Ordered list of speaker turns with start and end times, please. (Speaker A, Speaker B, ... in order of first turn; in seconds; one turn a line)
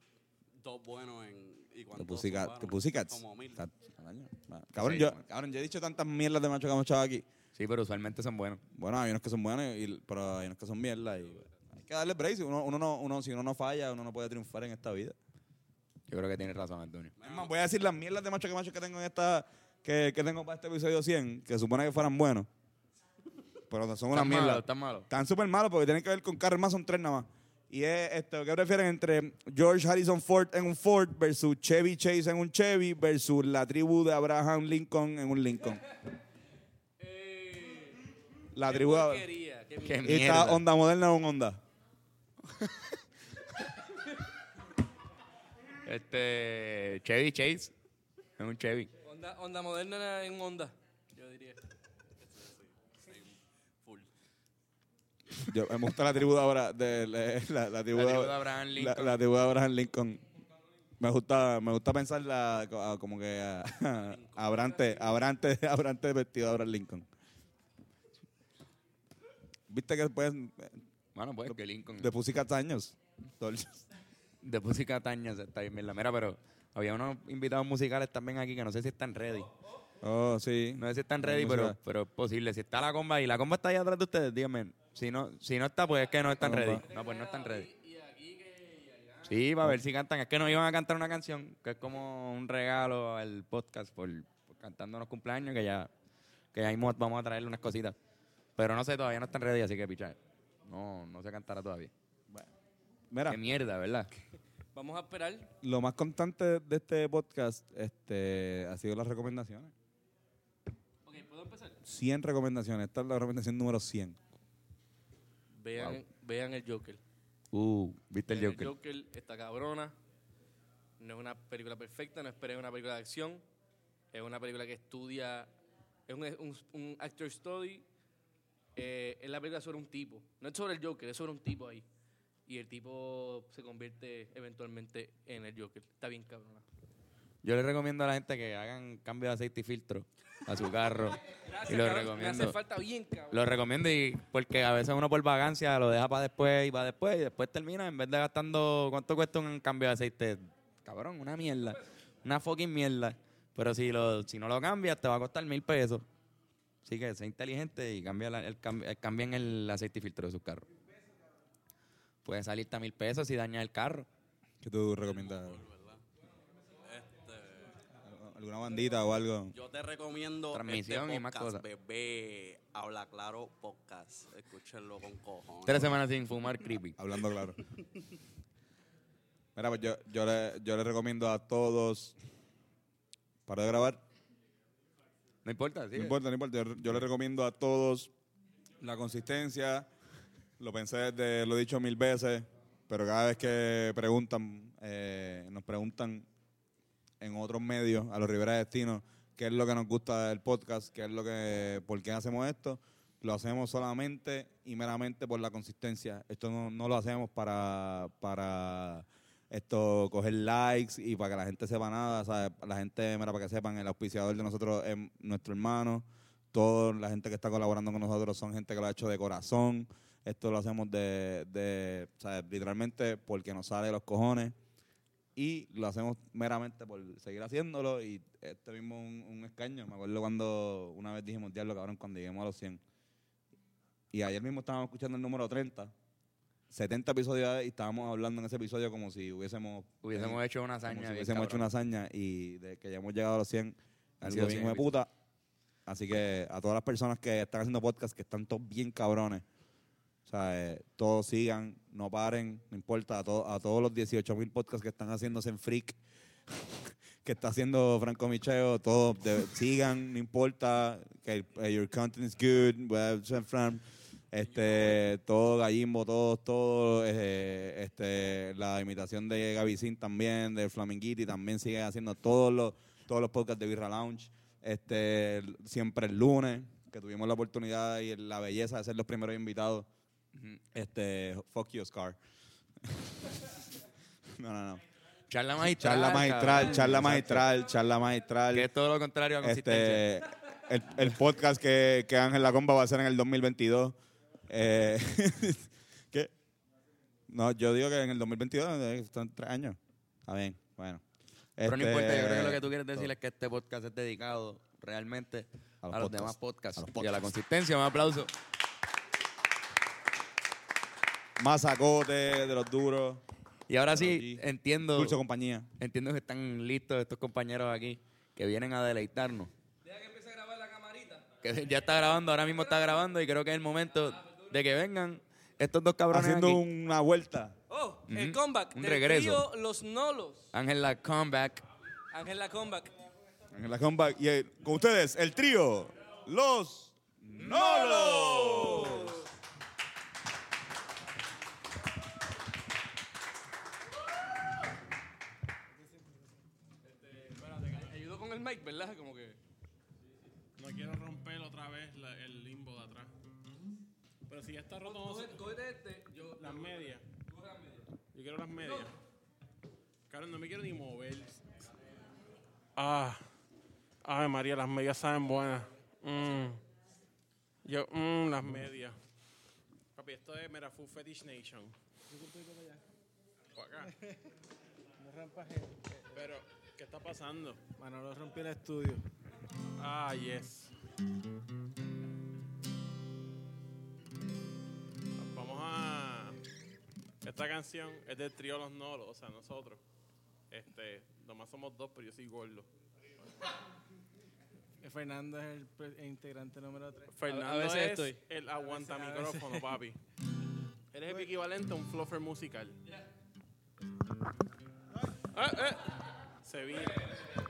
Speaker A: 0.6-3.6
Speaker B: 1.9-7.2
Speaker C: 4.8-5.2
Speaker C: 7.5-8.6
Speaker B: 8.7-15.2
Speaker C: 16.1-17.1
Speaker A: 17.2-17.5
Speaker B: 17.2-22.5
Speaker B: 23.7-35.8
Speaker C: 24.1-25.1
Speaker D: 37.0-38.0
Speaker B: 38.5-39.2
Speaker D: 38.6-40.2
Speaker C: 39.8-40.6
Speaker B: 40.0-41.6
Speaker C: 45.9-47.7
Speaker C: 48.4-48.9
Speaker D: 49.0-51.6
Speaker A: 52.2-54.1
Speaker B: 55.4-60.2
Speaker C: 57.9-59.2
Speaker B: 61.0-67.1
Speaker A: 64.0-65.0
Speaker B: 69.7-70.8
Speaker C: 71.1-72.1
Speaker B: 71.5-73.8
Speaker C: 74.4-79.5
Speaker B: 80.0-81.8
Speaker C: 80.8-87.7
Speaker B: 86.4-86.8
Speaker D: 86.9-89.4
Speaker C: 89.2-95.9
Speaker C: 96.5-98.0
Speaker C: 98.6-101.9
Speaker B: 103.1-103.4
Speaker C: 103.3-104.1
Speaker D: 104.7-105.5
Speaker B: 105.6-109.7
Speaker D: 111.0-111.8
Speaker B: 111.8-114.2
Speaker D: 115.5-117.0
Speaker C: 117.5-118.7
Speaker D: 118.3-119.9
Speaker D: 121.0-123.4
Speaker D: 124.1-125.5
Speaker D: 126.1-127.8
Speaker D: 128.8-131.8
Speaker D: 132.5-136.6
Speaker C: 137.4-142.6
Speaker D: 141.4-143.3
Speaker C: 143.3-156.1
Speaker C: 156.8-160.7
Speaker C: 162.2-164.1
Speaker B: 164.6-165.6
Speaker A: 165.0-166.0
Speaker A: 166.8-167.7
Speaker B: 168.0-169.5
Speaker A: 169.5-176.0
Speaker C: 170.5-171.6
Speaker C: 175.7-176.9
Speaker B: 177.0-177.6
Speaker B: 179.6-182.2
Speaker B: 183.5-184.0
Speaker C: 185.4-186.2
Speaker B: 185.9-188.1
Speaker B: 188.8-189.9
Speaker B: 190.6-196.2
Speaker B: 197.2-224.6
Speaker B: 225.3-232.8
Speaker B: 234.1-235.9
Speaker B: 236.7-245.1
Speaker C: 240.0-241.7
Speaker C: 244.2-245.0
Speaker B: 245.8-249.4
Speaker B: 250.2-256.0
Speaker B: 257.2-279.9
Speaker A: 264.4-265.0
Speaker B: 280.7-282.2
Speaker B: 284.4-284.8
Speaker C: 285.3-287.4
Speaker B: 285.6-288.7
Speaker C: 288.5-290.0
Speaker B: 289.4-294.0
Speaker B: 294.5-296.3
Speaker B: 297.3-301.0
Speaker B: 301.6-303.1
Speaker C: 301.6-308.3
Speaker B: 305.8-307.3
Speaker B: 311.4-313.2
Speaker C: 313.7-315.2
Speaker B: 313.9-315.7
Speaker C: 315.8-319.5
Speaker D: 319.8-321.2
Speaker C: 321.4-326.6
Speaker B: 326.1-327.5
Speaker D: 327.7-330.5
Speaker C: 328.1-329.4
Speaker C: 330.5-331.6
Speaker D: 332.1-332.9
Speaker B: 333.5-339.2
Speaker D: 337.8-339.1
Speaker D: 347.0-349.4
Speaker E: 347.5-347.8
Speaker E: 350.6-353.1
Speaker E: 354.3-355.4
Speaker D: 354.8-357.8
Speaker E: 356.4-357.0
Speaker E: 358.1-358.9
Speaker E: 360.1-361.6
Speaker E: 362.8-363.2
Speaker E: 364.0-366.6
Speaker E: 367.6-369.0
Speaker E: 369.9-371.7
Speaker F: 372.1-372.8
Speaker E: 373.5-373.9
Speaker F: 375.0-375.9
Speaker E: 376.1-377.6
Speaker F: 377.8-379.0
Speaker E: 379.8-380.7
Speaker E: 385.2-386.4
Speaker E: 387.2-389.8
Speaker E: 390.5-392.7
Speaker F: 394.8-397.1
Speaker E: 397.1-400.0
Speaker D: 397.2-398.2
Speaker F: 398.6-399.6
Speaker E: 400.9-402.8
Speaker E: 405.3-405.9
Speaker E: 406.4-407.1